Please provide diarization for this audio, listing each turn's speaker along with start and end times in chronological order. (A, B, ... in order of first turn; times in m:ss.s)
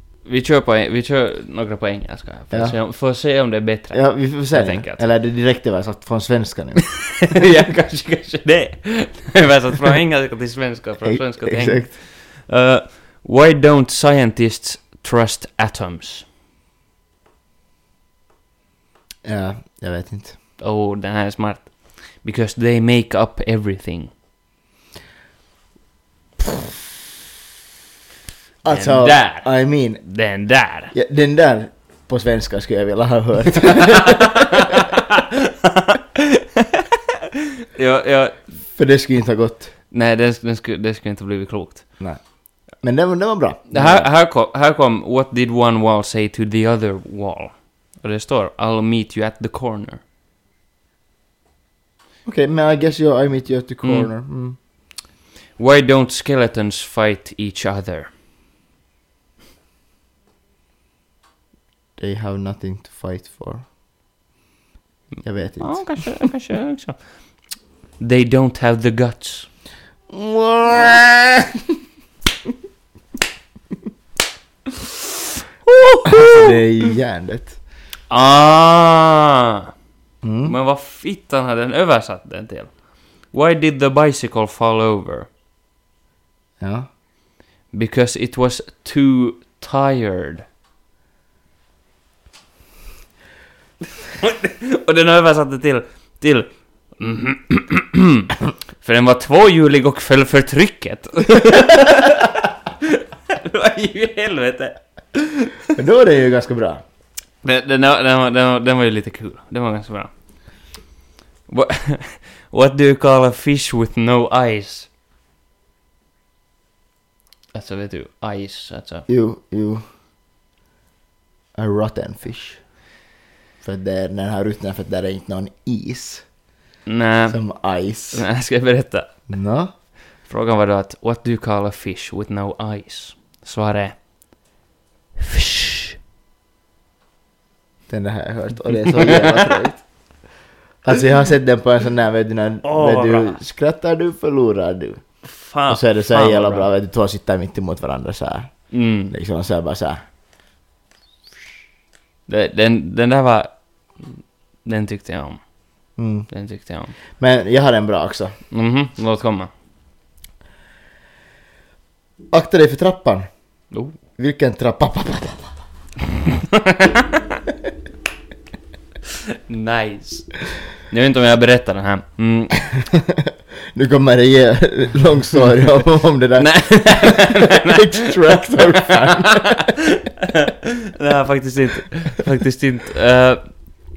0:00.2-0:05.0 A
0:02.5-0:02.8 B
0:03.9-0:07.4 B
0:07.0-0:16.2 A
0:11.0-0:11.9 B
0:19.2-0:20.4 B
0:20.6-0:24.1 A
0:28.6-0:30.0 B
0:28.7-0:29.5 A
0:30.0-0:30.9 A
0:30.9-0:34.8 B
0:33.6-0:38.4 A
0:38.7-0:39.7 B
0:39.9-0:41.8 A
0:42.8-0:44.1 B
0:43.7-0:50.0 A
0:52.2-0:54.6 B
0:53.8-0:54.1 A
0:55.6-0:58.1 A
1:02.0-1:03.6 B
1:05.2-1:06.1 B
1:05.6-1:07.0 A
1:08.0-1:09.5 A
1:10.1-1:11.7 B
1:15.6-1:16.5 A
1:16.0-1:17.6 B
1:18.1-1:19.7 A
1:20.2-1:20.5 B
1:20.4-1:22.7 A
1:23.3-1:25.3 A
1:26.6-1:26.9 B
1:27.7-1:30.4 A
1:34.0-1:45.7 A
1:45.8-1:46.8 B
1:47.4-1:50.1 A
1:51.5-1:54.9 A
1:57.5-1:59.0 A
1:59.1-1:59.8 B
2:01.6-2:02.6 B
2:03.6-2:06.2 B
2:06.8-2:07.4 A
2:07.3-2:08.2 B
2:08.1-2:09.1 A
2:09.3-2:09.7 B
2:10.3-2:14.0 A
2:15.2-2:16.0 A
2:17.9-2:19.8 B
2:19.0-2:19.5 A
2:20.8-2:25.0 B
2:22.6-2:23.4 A
2:25.2-2:26.7 A
2:25.7-2:28.5 B
2:28.7-2:29.1 A
2:29.1-2:30.0 B
2:32.3-2:33.5 A
2:34.0-2:35.4 A
2:36.0-2:36.3 B
2:36.3-2:36.9 A
2:37.2-2:38.4 B
2:38.5-2:39.5 A
2:42.3-2:43.3 B
2:44.2-2:45.6 B
2:46.2-2:47.2 A
2:49.5-2:50.3 A
2:50.9-2:52.6 A
2:52.6-2:59.8 B
2:56.4-3:03.4 A